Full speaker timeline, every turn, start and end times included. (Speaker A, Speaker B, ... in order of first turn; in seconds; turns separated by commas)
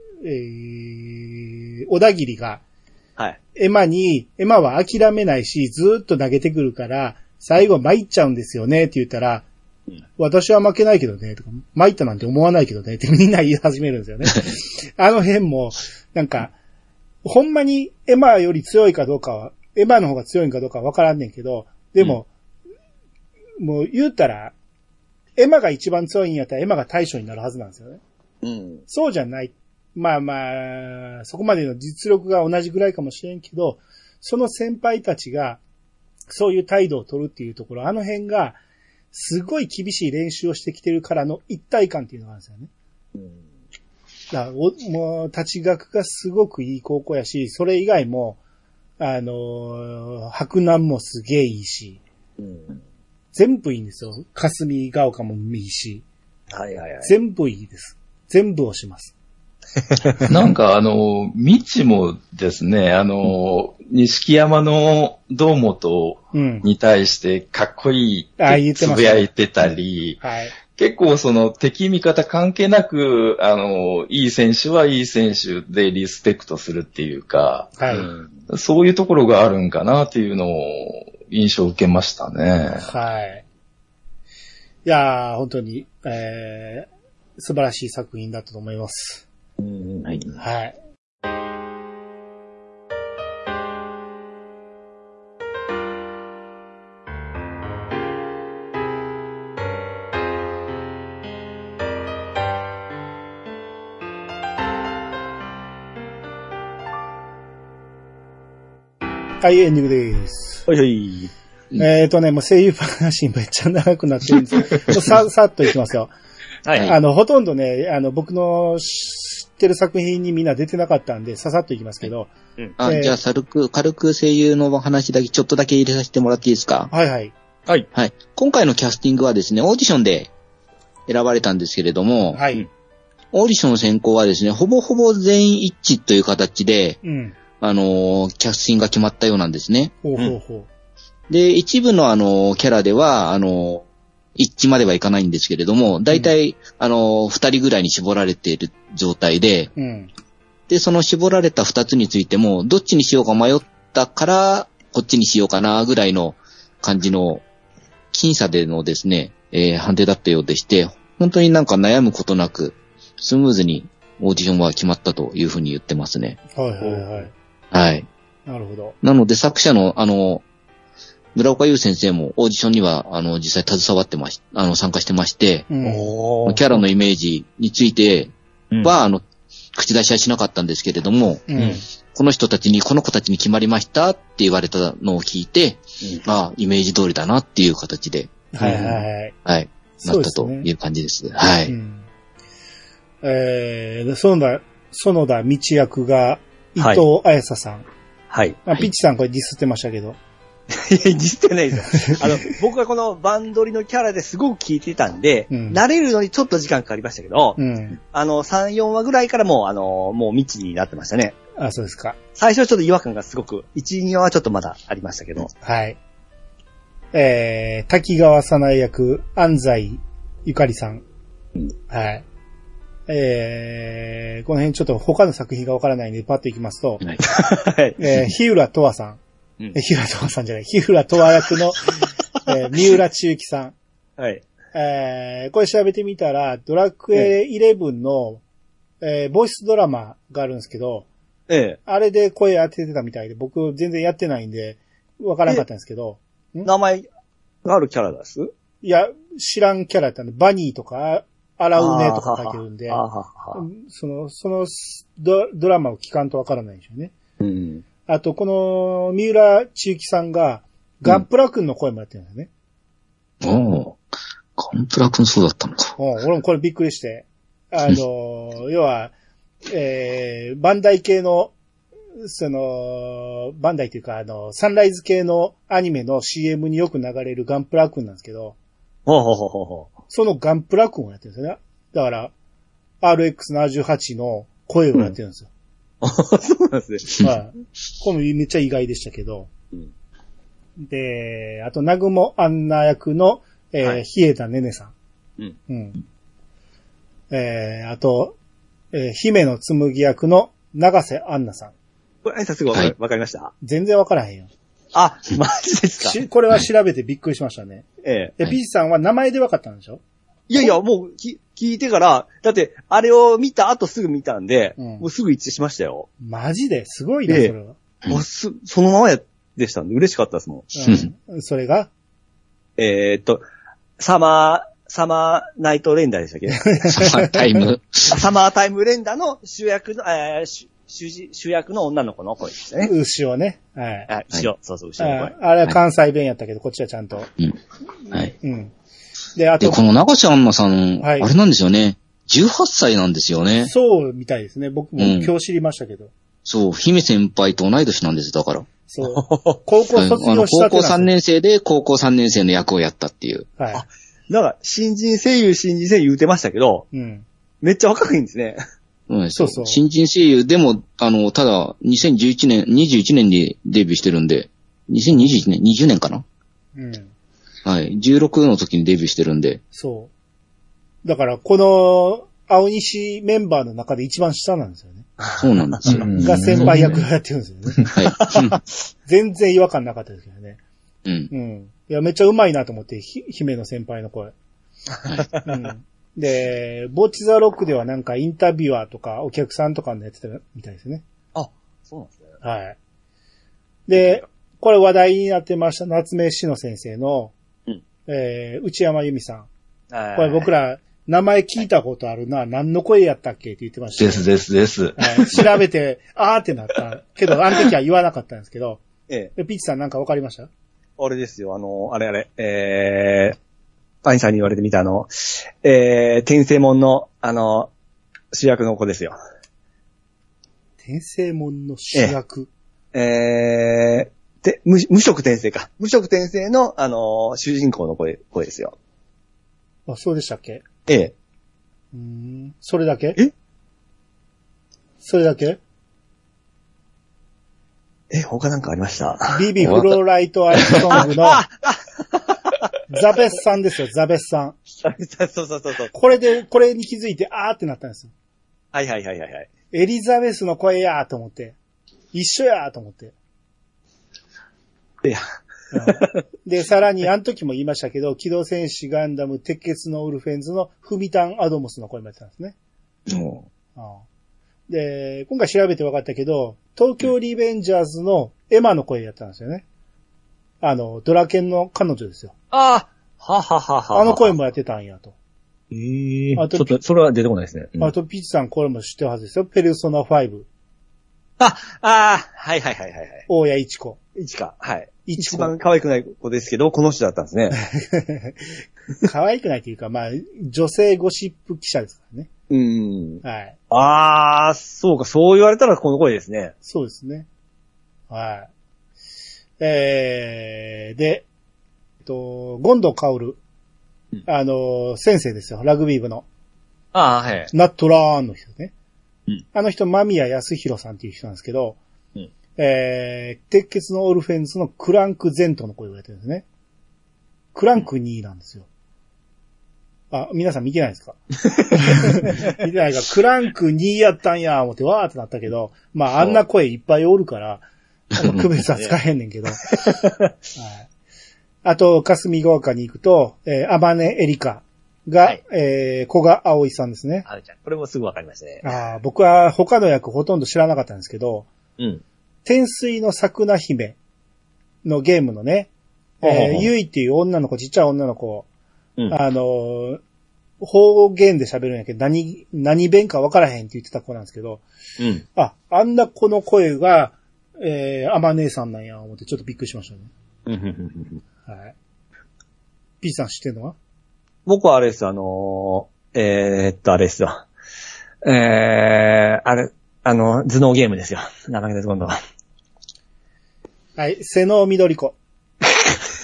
Speaker A: 0.2-2.6, Speaker A: 3.5-9.4, Speaker A: 10.2-16.5, Speaker A: 17.2-22.3, Speaker A: 23.6-24.5, Speaker A: 25.4-28.0, Speaker B: 28.4-28.8, Speaker A: 28.9-35.6, Speaker A: 36.3-38.6, Speaker A: 39.1-42.7, Speaker B: 43.1-43.4, Speaker A: 44.3-48.4, Speaker A: 49.0-52.0, Speaker B: 52.4-52.8, Speaker A: 53.3-56.0, Speaker B: 56.5-57.1, Speaker A: 57.0-59.1, Speaker C: 60.3-70.2, Speaker A: 66.3-66.7, Speaker A: 68.4-69.3, Speaker A: 70.2-70.5, Speaker C: 70.7-77.8, Speaker A: 77.8-78.1, Speaker B: 77.9-78.3, Speaker C: 78.5-82.8, Speaker A: 82.8-83.4, Speaker A: 84.8-89.2, Speaker B: 89.6-90.4, Speaker A: 90.4-90.7, Speaker A: 109.4-110.7, Speaker B: 110.7-111.3, Speaker A: 111.7-116.1, Speaker B: 116.6-117.0, Speaker A: 116.8-123.2, Speaker D: 122.8-126.9, Speaker A: 126.9-127.3, Speaker D: 127.9-130.3, Speaker D: 131.1-132.4, Speaker A: 132.3-132.7, Speaker D: 133.3-137.0, Speaker A: 137.0-137.3, Speaker D: 137.6-139.9, Speaker A: 140.0-140.7, Speaker D: 141.3-143.8, Speaker D: 144.4-149.7, Speaker A: 149.8-150.1, Speaker D: 150.7-157.4, Speaker D: 158.1-166.4, Speaker A: 166.5-167.3, Speaker D: 167.7-168.1, Speaker A: 168.5-168.9, Speaker D: 169.0-170.4, Speaker D: 171.3-175.7, Speaker A: 175.7-176.2, Speaker B: 175.8-176.7, Speaker D: 176.4-181.5, Speaker A: 181.5-181.8, Speaker D: 182.1-188.9, Speaker A: 188.5-189.3, Speaker B: 188.6-189.0, Speaker D: 189.4-191.7, Speaker A: 190.0-190.7, Speaker A: 191.7-192.1, Speaker A: 193.2-197.8, Speaker B: 198.3-198.6, Speaker A: 198.6-200.2, Speaker B: 200.7-211.3, Speaker A: 205.5-205.8, Speaker A: 207.6-208.0, Speaker A: 211.6-212.2, Speaker B: 212.4-215.5, Speaker A: 215.6-216.0, Speaker A: 217.1-221.0, Speaker A: 221.9-222.2, Speaker A: 223.1-227.0, Speaker B: 227.2-228.0, Speaker A: 228.0-229.2, Speaker A: 229.7-233.7, Speaker B: 234.2-234.4, Speaker A: 234.7-238.4, Speaker A: 239.0-241.1, Speaker B: 241.5-241.8, Speaker A: 241.8-246.7, Speaker B: 246.6-247.0, Speaker B: 247.6-248.5, Speaker A: 248.8-253.0, Speaker B: 251.8-253.6, Speaker A: 253.5-257.1, Speaker B: 257.4-257.8, Speaker A: 258.1-262.5, Speaker D: 263.4-264.0, Speaker D: 264.6-265.9, Speaker A: 266.0-269.1, Speaker A: 269.7-271.5, Speaker A: 272.2-278.6, Speaker B: 279.1-279.9, Speaker A: 280.1-282.3, Speaker A: 283.0-285.5, Speaker B: 286.0-287.3, Speaker A: 287.2-289.5, Speaker A: 290.8-294.9, Speaker A: 295.7-296.0, Speaker A: 297.3-298.3, Speaker A: 298.9-301.7, Speaker B: 302.2-303.5, Speaker A: 303.6-304.5, Speaker B: 304.9-306.2, Speaker A: 306.0-307.9, Speaker B: 308.0-308.3, Speaker A: 308.4-310.0, Speaker B: 310.5-316.1, Speaker A: 314.8-315.1, Speaker A: 316.2-317.7, Speaker B: 317.3-317.5, Speaker B: 318.1-320.7, Speaker A: 320.7-321.9, Speaker B: 322.8-323.4, Speaker B: 324.0-327.1, Speaker A: 326.7-327.4, Speaker D: 326.9-328.2, Speaker B: 328.1-332.9, Speaker A: 332.8-334.1, Speaker B: 334.1-335.3, Speaker A: 335.0-337.3, Speaker A: 338.1-338.7, Speaker A: 339.3-339.8, Speaker D: 339.6-343.7, Speaker A: 341.0-341.3, Speaker A: 343.6-346.1, Speaker D: 345.0-345.3, Speaker D: 346.4-348.7, Speaker A: 348.9-351.1, Speaker B: 349.0-349.6, Speaker D: 349.9-353.5, Speaker A: 353.6-353.8, Speaker B: 353.7-356.9, Speaker A: 356.9-357.2, Speaker B: 357.6-358.6, Speaker D: 359.1-366.2, Speaker A: 359.3-359.8, Speaker A: 366.7-367.1, Speaker D: 367.6-369.6, Speaker A: 369.7-370.1, Speaker A: 371.0-375.1, Speaker B: 375.2-376.9, Speaker D: 375.4-376.1, Speaker C: 375.8-376.9, Speaker A: 376.1-377.8, Speaker D: 377.9-378.6, Speaker B: 378.1-378.6, Speaker A: 379.1-380.6, Speaker D: 381.0-381.3, Speaker A: 381.3-384.3, Speaker A: 385.4-391.0, Speaker B: 391.3-392.4, Speaker A: 392.4-392.8, Speaker A: 393.9-397.3, Speaker B: 393.9-394.2, Speaker A: 398.1-399.5, Speaker B: 399.9-400.5, Speaker A: 400.1-404.3, Speaker C: 404.0-405.4, Speaker A: 404.9-408.8, Speaker A: 409.4-410.5, Speaker B: 411.0-413.4, Speaker B: 414.0-417.7, Speaker B: 418.3-419.2, Speaker A: 420.8-422.5, Speaker B: 422.9-428.7, Speaker A: 429.9-430.6, Speaker B: 430.9-431.1, Speaker A: 431.9-433.2, Speaker A: 435.0-435.6, Speaker B: 438.1-439.9, Speaker A: 439.3-441.4, Speaker B: 440.6-442.6, Speaker A: 442.9-444.6, Speaker B: 444.8-445.9, Speaker A: 445.9-448.1, Speaker B: 448.7-449.5, Speaker A: 449.7-451.6, Speaker A: 452.1-453.1, Speaker A: 455.7-462.5, Speaker B: 455.8-456.2, Speaker A: 463.7-464.0, Speaker A: 464.7-469.6, Speaker A: 470.6-472.3, Speaker B: 472.5-474.3, Speaker A: 473.9-475.1, Speaker B: 475.7-477.9, Speaker A: 476.4-476.8, Speaker A: 477.8-480.5, Speaker B: 481.4-483.2, Speaker A: 483.3-484.0, Speaker B: 484.1-487.6, Speaker A: 485.1-485.5, Speaker A: 487.6-492.3, Speaker B: 492.5-496.5, Speaker A: 493.2-493.5, Speaker A: 496.6-497.3, Speaker A: 498.1-498.5, Speaker A: 499.6-501.2, Speaker A: 502.0-503.4, Speaker A: 504.2-506.2, Speaker B: 506.9-507.5, Speaker A: 507.5-508.7, Speaker A: 509.5-511.8, Speaker A: 512.6-516.4, Speaker A: 517.5-518.6, Speaker A: 520.1-521.2, Speaker A: 521.7-527.6, Speaker B: 521.7-522.5, Speaker A: 528.1-529.8, Speaker B: 528.2-528.9, Speaker B: 529.6-530.3, Speaker A: 530.5-530.9, Speaker A: 531.6-537.2, Speaker B: 537.3-538.6, Speaker A: 538.6-541.5, Speaker A: 542.4-544.0, Speaker A: 544.8-545.7, Speaker A: 546.2-548.5, Speaker B: 546.2-546.7, Speaker A: 549.1-550.0, Speaker A: 550.6-554.6, Speaker A: 555.3-560.1, Speaker B: 560.5-561.2, Speaker A: 561.5-561.7, Speaker A: 563.0-563.8, Speaker B: 564.5-567.5, Speaker B: 568.2-572.2, Speaker A: 574.0-575.1